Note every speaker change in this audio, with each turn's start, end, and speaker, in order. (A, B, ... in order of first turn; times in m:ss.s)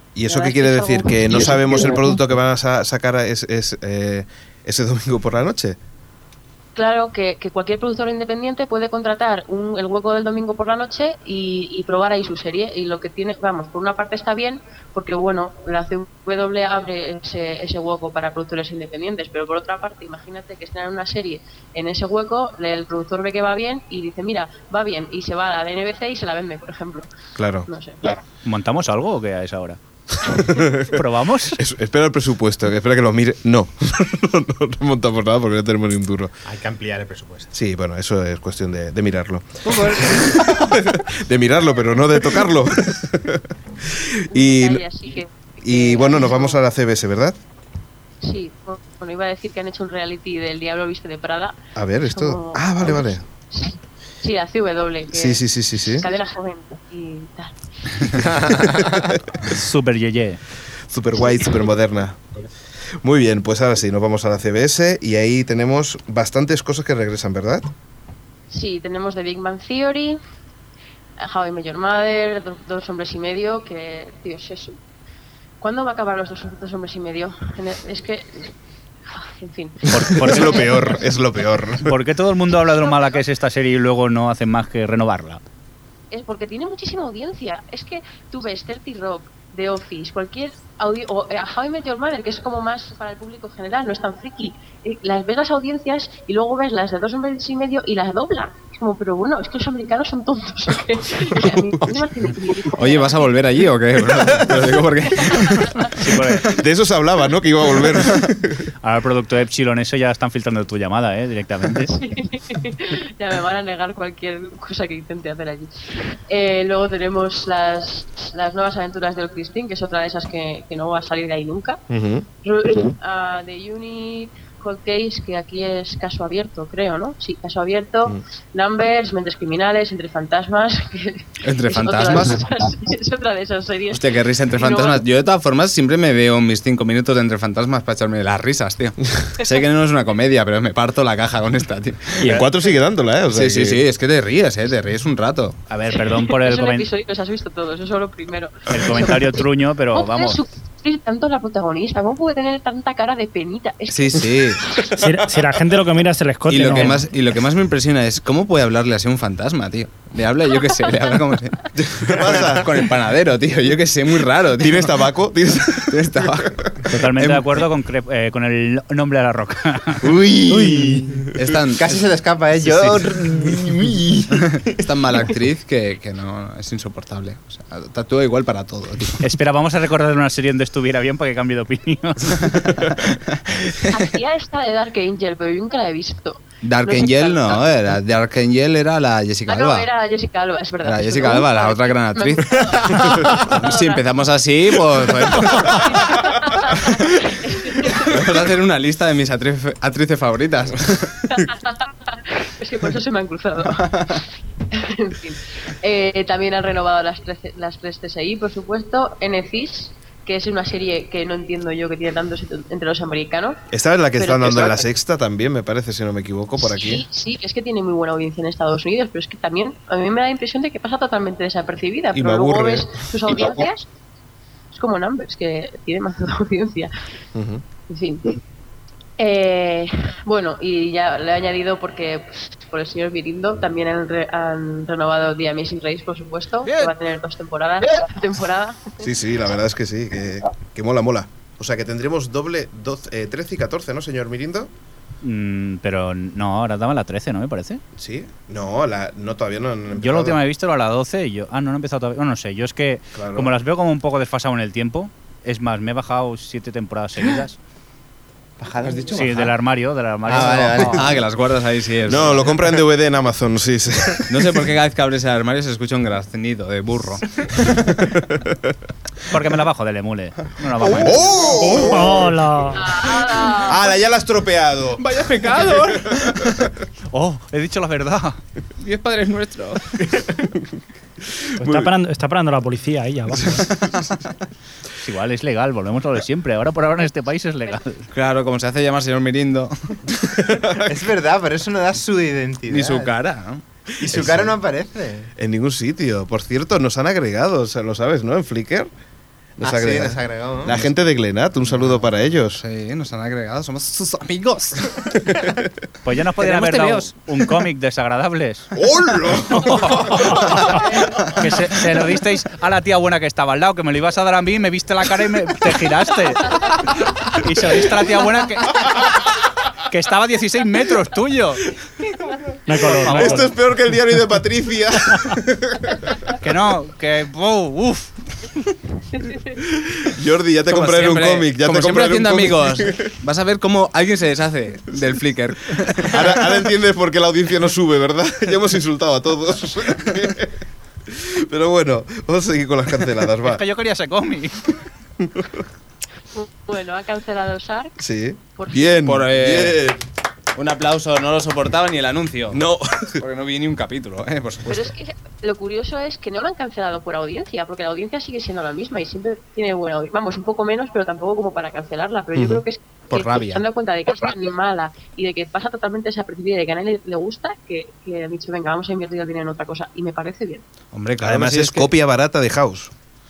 0:00.2-0:05.8 A
0:00.3-0:01.9 B
0:06.8-0:27.1 B
0:27.4-0:27.7 A
0:27.7-0:28.1 B
0:28.4-0:29.8 C
0:30.3-0:31.0 A
0:30.3-0:31.6 C
0:31.5-0:36.3 A
0:36.4-0:37.5 D
0:37.5-0:44.8 A
0:39.9-0:40.4 D
0:44.3-0:46.6 B
0:45.6-0:47.4 A
0:48.2-0:58.2 B
0:51.8-0:53.2 A
0:55.1-0:56.1 A
0:58.2-0:58.9 D
0:58.8-0:59.5 A
0:59.4-1:00.4 C
1:00.9-1:02.2 A
1:03.0-1:07.7 A
1:08.5-1:10.2 B
1:11.2-1:14.8 B
1:15.6-1:18.5 B
1:19.1-1:20.8 B
1:19.9-1:21.0 C
1:19.9-1:21.9 A
1:21.8-1:25.4 C
1:22.8-1:23.2 B
1:26.1-1:43.3 B
1:42.7-1:46.4 E
1:45.2-1:45.9 B
1:45.9-1:46.6 C
1:46.5-1:48.7 A
1:48.8-1:52.0 C
1:51.9-2:01.8 B
2:01.9-2:02.2 A
2:02.4-2:15.0 B
2:11.4-2:12.4 E
2:13.9-2:22.3 E
2:22.2-2:23.8 A
2:23.3-2:25.6 E
2:25.7-2:26.9 C
2:26.0-2:29.4 B
2:28.7-2:30.4 C
2:29.9-2:34.9 B
2:33.9-2:34.7 E
2:35.0-2:37.1 F
2:36.5-2:44.9 E
2:41.8-2:42.7 A
2:44.5-2:46.7 A
2:45.9-2:47.6 E
2:46.9-2:50.2 C
2:50.0-2:54.8 D
2:51.3-2:52.0 E
2:52.6-2:53.1 E
2:54.5-2:59.3 E
2:59.2-3:02.9 C
3:03.1-3:03.8 E
3:03.9-3:07.7 B
3:06.6-3:09.9 E
3:09.5-3:14.1 B
3:10.8-3:16.1 E
3:15.3-3:18.3 B
3:17.9-3:21.2 E
3:21.3-3:33.6 B
3:33.7-3:37.1 A
3:34.2-3:34.8 B
3:36.6-3:43.9 B
3:42.1-3:43.1 A
3:44.7-3:46.9 B
3:47.4-3:47.6 A
3:47.9-3:48.4 B
3:49.2-3:59.0 B
3:59.0-4:04.7 A
4:05.2-4:07.8 C
4:08.0-4:10.4 A
4:10.0-4:17.6 C
4:13.2-4:13.5 A
4:18.6-4:19.5 D
4:19.1-4:21.1 C
4:20.3-4:21.2 D
4:20.9-4:22.7 E
4:22.1-4:24.7 A
4:24.3-4:28.0 E
4:28.1-4:28.6 A
4:29.3-4:31.5 C
4:30.9-4:32.3 A
4:31.7-4:32.8 F
4:32.7-4:33.8 B
4:33.5-4:35.0 A
4:35.0-4:36.6 E
4:35.9-4:36.7 A
4:37.1-4:38.4 C
4:38.8-4:40.2 E
4:41.6-4:43.7 F
4:43.5-4:44.2 E
4:45.0-4:48.1 C
4:48.1-4:50.0 E
4:50.4-4:51.0 A
4:50.8-4:53.1 D
4:52.7-4:53.6 E
4:54.0-4:55.3 D
4:54.1-4:54.4 A
4:55.4-4:58.9 A
4:59.6-5:02.6 A
4:59.6-5:00.8 D
5:02.6-5:05.4 E
5:06.0-5:08.8 C
5:06.4-5:07.1 E
5:08.8-5:10.4 A
5:09.5-5:21.6 C
5:22.7-5:23.5 F
5:22.8-5:23.5 C
5:23.0-5:26.2 A
5:26.4-5:28.1 C
5:29.6-5:33.1 A
5:30.7-5:36.3 E
5:36.1-5:40.6 A
5:41.1-5:43.6 A
5:43.5-5:44.8 C
5:45.2-5:45.6 A
5:46.3-5:48.0 B
5:48.0-5:50.0 A
5:48.6-5:49.0 B
5:49.0-5:49.8 E
5:50.6-5:52.6 E
5:52.5-5:53.2 A
5:53.2-5:54.9 E
5:54.7-6:10.6 B
6:02.4-6:02.6 A
6:03.1-6:03.6 E
6:10.9-6:11.9 E
6:11.2-6:12.9 A